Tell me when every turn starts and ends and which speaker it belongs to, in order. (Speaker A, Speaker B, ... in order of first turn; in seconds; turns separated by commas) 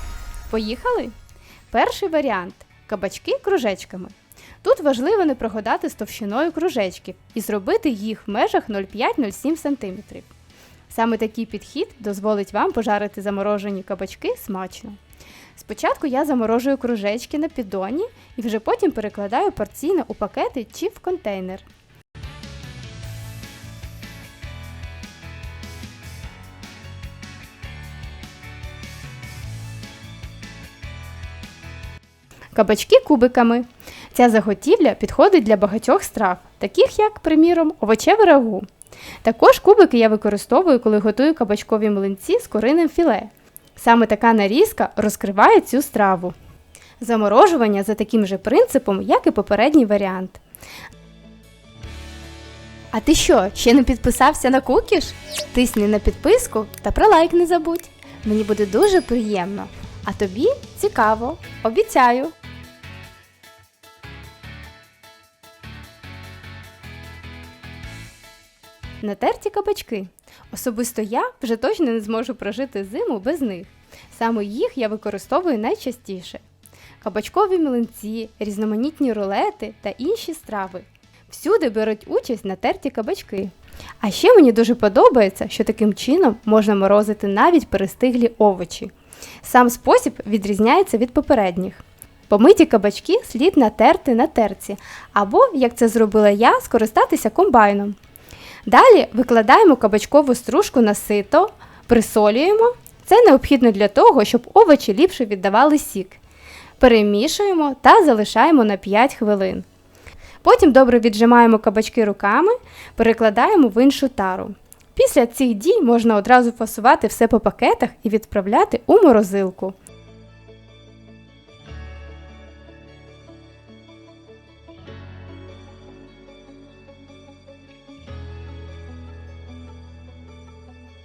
Speaker A: 0.5-1.1, Speaker A: 1.7-10.3, Speaker A: 10.9-15.0, Speaker A: 15.6-21.7, Speaker A: 32.5-38.7, Speaker A: 39.2-46.4, Speaker A: 47.0-50.4, Speaker A: 52.9-62.3, Speaker A: 69.0-76.4, Speaker A: 77.0-88.9, Speaker A: 89.4-98.0, Speaker A: 98.7-106.2, Speaker A: 106.8-109.7, Speaker A: 110.4-119.8